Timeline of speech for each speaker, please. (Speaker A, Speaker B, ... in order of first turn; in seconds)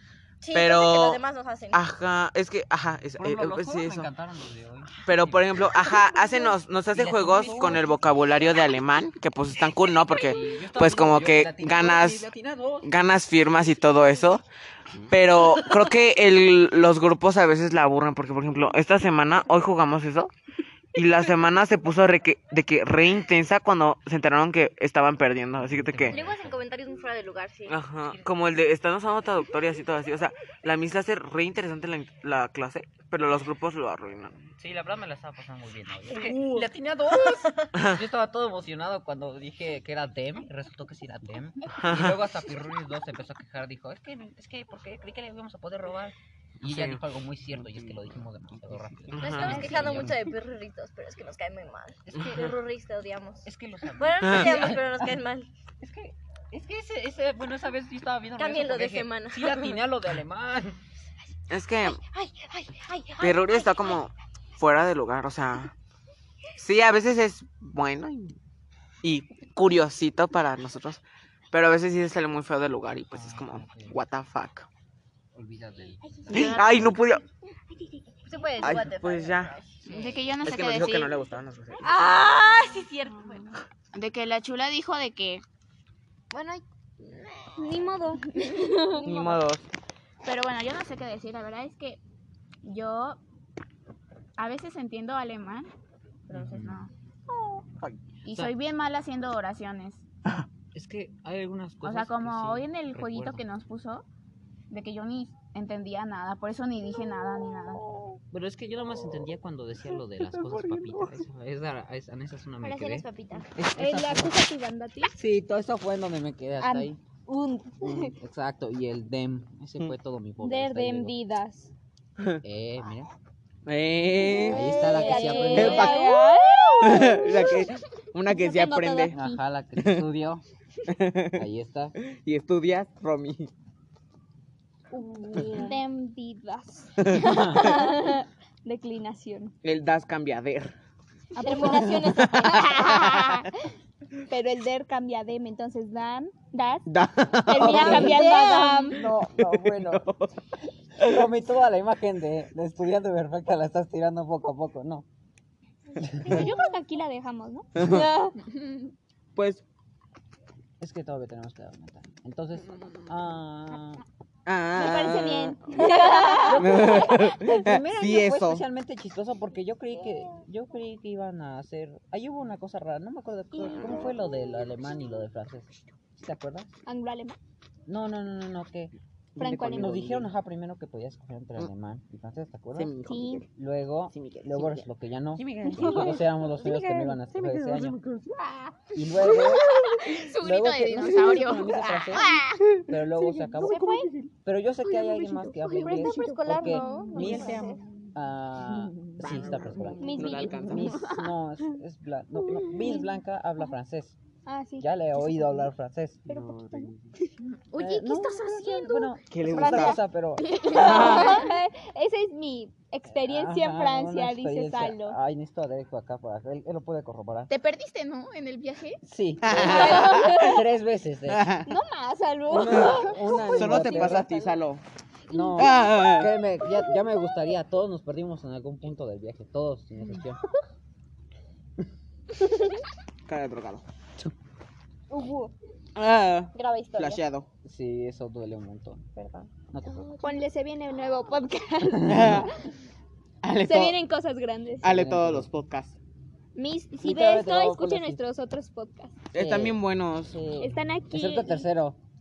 Speaker A: 0.4-1.8, 26.1-27.8, 36.1-36.7, 49.2-55.5, 58.4-59.8, 61.9-64.0, 76.2-76.6, 77.8-79.8, 81.8-83.6, 86.3-87.6, 88.4-89.4, 112.6-113.5, 124.2-126.3, 134.9-135.8, 141.4-143.3, 147.6-149.1, 157.8-158.3, 165.8-166.6, 185.6-186.9, 193.5-194.1, 195.7-197.8, 235.1-235.5, 236.6-237.2, 239.9-240.3
Speaker B: 0.5-1.2, 1.7-4.1, 5.0-12.3, 12.8-14.4, 15.1-20.3, 20.9-26.2, 27.7-34.5, 41.7-42.2, 46.6-47.0, 47.6-47.9, 49.0-50.1, 54.2-54.6, 61.5-62.0, 63.2-65.7, 66.6-68.4, 69.0-74.7, 76.3-77.2, 78.6-79.5, 80.4-81.9, 89.0-89.7, 110.3-111.2, 123.7-124.8, 125.5-126.2, 126.8-129.2, 129.8-130.1, 130.9-131.4, 132.0-133.5, 137.0-137.7, 139.6-140.7, 142.2-143.5, 146.9-150.3, 151.0-151.2, 157.8-158.1, 159.3-159.6, 164.5-165.8, 166.6-168.6, 179.4-180.3, 182.8-183.5, 184.1-184.9, 185.4-188.9, 197.2-197.7, 198.9-201.1, 206.3-206.9, 209.3-210.0, 210.7-211.4, 219.4-220.5, 221.3-221.7, 222.7-224.8, 225.6-226.3, 233.3-233.8, 235.9-237.5, 242.0-242.5, 243.4-244.0, 244.8-246.0, 249.3-250.3
Speaker C: 3.2-5.7, 6.9-8.1, 10.1-12.9, 25.6-26.6, 34.6-50.3, 52.1-52.5, 53.5-55.1, 55.8-60.8, 73.1-74.0, 75.3-76.6, 96.3-96.9, 100.7-103.4, 108.3-114.4, 115.2-117.0, 117.8-121.1, 122.4-123.1, 124.4-125.9, 129.1-130.4, 131.3-131.9, 147.8-150.1, 151.0-155.1, 156.0-156.5, 160.8-164.0, 166.5-176.7, 177.9-178.9, 179.5-182.9, 183.5-188.0, 188.9-189.7, 190.4-192.3, 192.8-193.9, 194.4-204.2, 204.8-206.4, 207.7-210.5, 213.2-217.5, 219.0-221.5, 222.5-224.5, 225.3-230.4, 237.7-240.1, 242.0-242.5, 244.8-245.5, 247.0-248.2, 249.3-252.0
Speaker D: 76.3-77.0, 79.9-81.2, 83.1-85.4, 90.2-92.0, 92.6-93.2, 94.4-95.7, 96.3-96.9, 98.2-100.0, 101.8-104.1, 104.7-108.0, 158.5-158.9, 189.3-192.6, 195.0-196.2, 197.3-197.8, 207.7-209.1, 210.4-211.5, 217.5-219.0
Speaker E: 87.6-89.0, 113.8-115.2, 116.6-118.2, 120.4-121.7, 124.7-127.7, 128.3-129.4, 135.4-139.5, 141.3-143.3, 144.3-146.9, 147.4-149.0, 156.2-157.7, 164.7-167.2, 176.9-177.4, 179.4-180.0, 183.1-183.4, 193.6-194.1, 196.2-197.1, 200.0-200.9, 204.5-205.6, 206.3-207.3, 207.8-208.6, 209.4-210.0, 210.7-215.2, 219.5-220.6, 221.7-224.3, 225.3-225.8, 240.2-242.5, 243.6-244.9, 246.6-249.2, 250.6-251.7